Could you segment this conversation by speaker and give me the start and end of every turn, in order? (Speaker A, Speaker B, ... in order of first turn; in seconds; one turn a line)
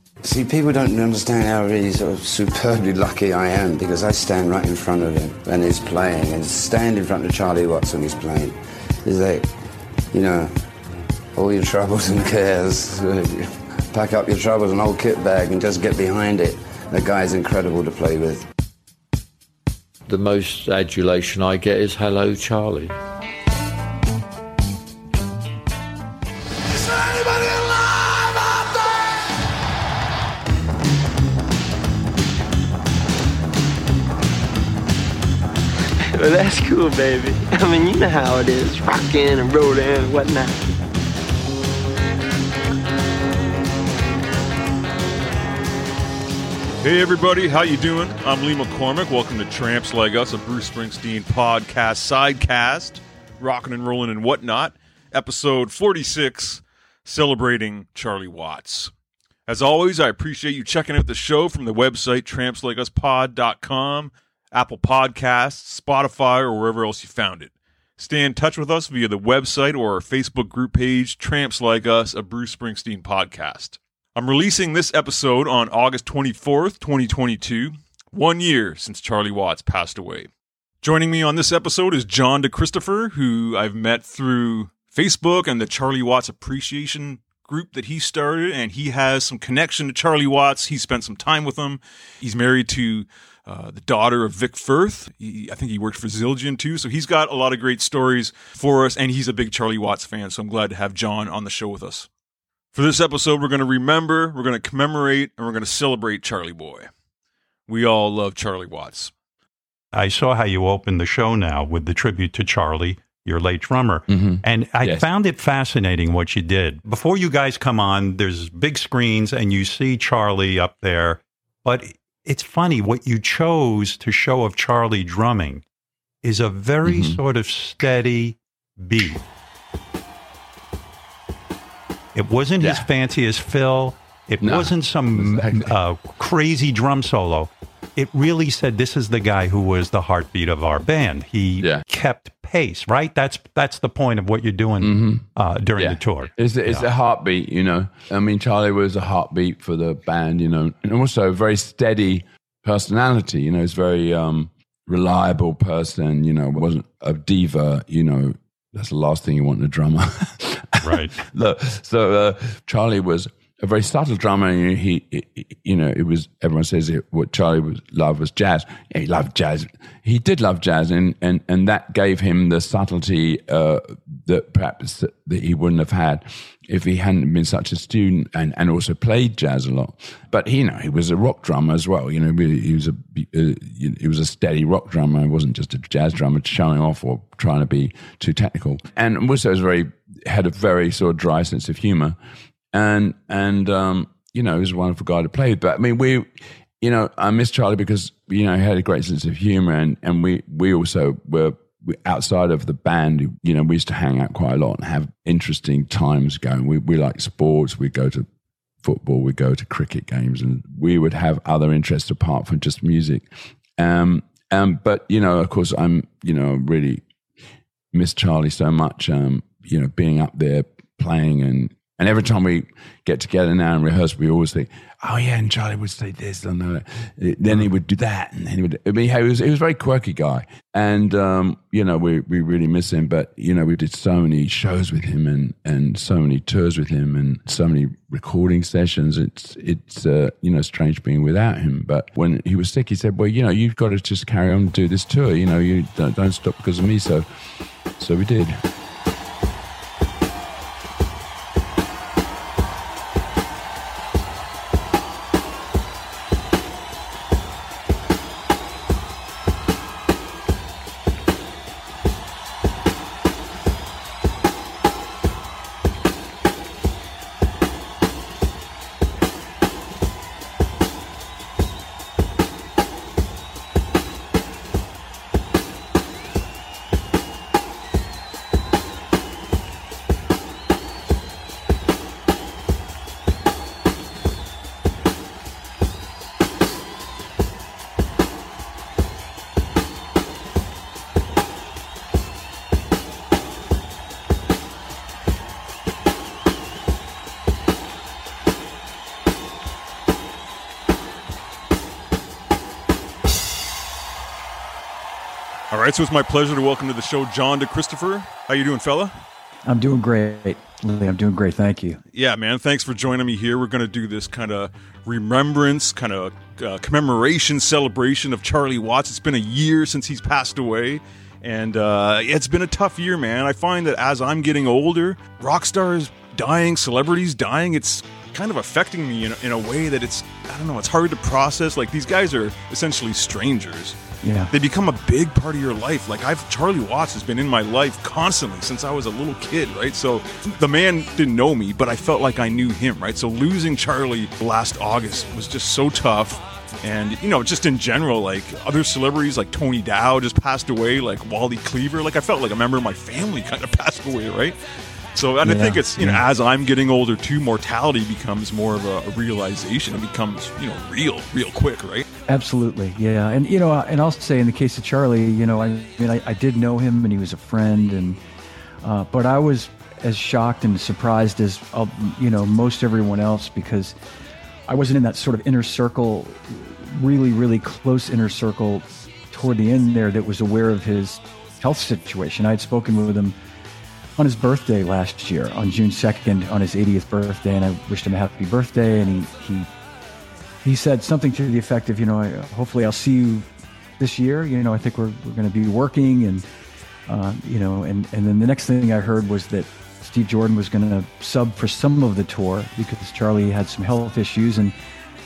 Speaker A: 0.2-9.5
Speaker A: 10.1-10.6
Speaker A: 11.3-18.4
Speaker B: 20.1-23.0
Speaker C: 36.1-40.5
Speaker D: 46.8-58.9
Speaker D: 59.5-80.3
Speaker D: 80.8-102.1
Speaker D: 102.7-106.9
Speaker D: 107.7-109.1
Speaker E: 109.9-125.6
Speaker F: 114.1-115.1
Speaker E: 126.2-129.2
Speaker F: 126.8-127.2
Speaker E: 132.2-146.9
Speaker F: 132.6-132.9
Speaker F: 134.4-135.8
Speaker F: 141.6-141.8
Speaker F: 144.8-192.2
Speaker E: 160.8-161.1
Speaker F: 192.7-208.3
Speaker F: 208.8-217.1
Speaker F: 217.9-247.3
Speaker F: 247.9-248.7
Speaker D: 305.7-309.2
Speaker G: 309.7-312.0
Speaker D: 312.1-334.0
Speaker G: 334.2-334.5
Speaker D: 334.5-354.6
Speaker D: 355.1-362.1
Speaker G: 355.4-356.2
Speaker G: 362.3-368.2
Speaker G: 368.8-374.0
Speaker G: 374.7-383.4
Speaker G: 384.2-389.7
Speaker G: 390.6-393.5
Speaker G: 394.0-396.5
Speaker G: 397.1-404.8